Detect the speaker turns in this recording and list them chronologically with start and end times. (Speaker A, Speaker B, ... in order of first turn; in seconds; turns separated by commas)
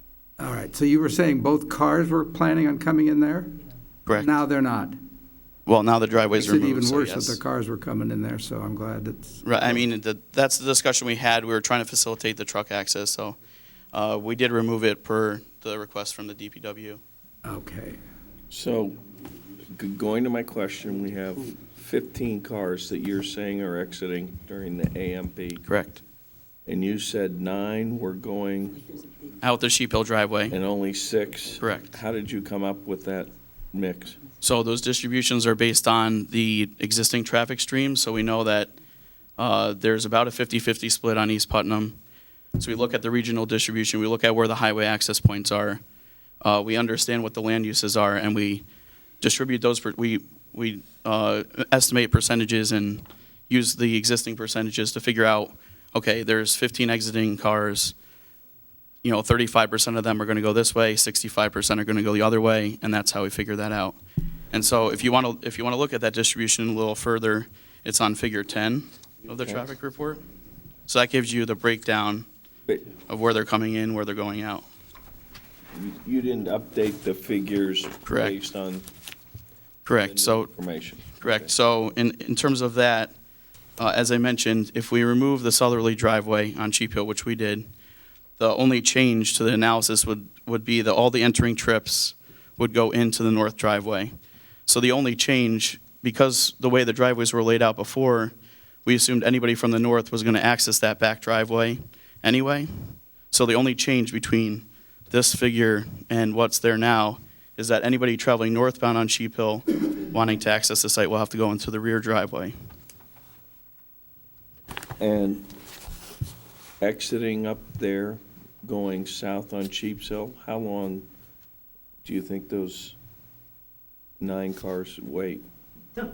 Speaker A: 0.4-3.5, Speaker B: 4.0-4.3, Speaker A: 4.2-5.0, Speaker B: 5.7-7.4, Speaker A: 6.3-9.4, Speaker B: 9.4-13.3, Speaker B: 13.9-17.0, Speaker A: 17.4-18.0, Speaker C: 18.5-19.0, Speaker C: 19.7-25.6, Speaker B: 25.6-26.0, Speaker C: 26.6-28.9, Speaker B: 29.4-30.6, Speaker C: 30.5-34.2, Speaker B: 31.6-31.9, Speaker B: 34.4-38.7, Speaker B: 39.4-42.0, Speaker B: 42.6-45.8, Speaker B: 46.4-48.6, Speaker B: 49.2-57.9, Speaker B: 59.0-64.0, Speaker B: 64.5-70.2, Speaker B: 70.9-72.3, Speaker B: 72.9-74.6, Speaker C: 75.7-78.8, Speaker B: 78.0-78.4, Speaker B: 79.8-80.5, Speaker C: 79.9-81.5, Speaker B: 81.1-83.1, Speaker B: 83.8-87.7, Speaker B: 88.4-94.1, Speaker B: 94.7-98.3, Speaker B: 98.8-112.5, Speaker C: 115.0-115.5, Speaker C: 116.8-121.1, Speaker C: 122.0-123.0, Speaker C: 124.2-125.4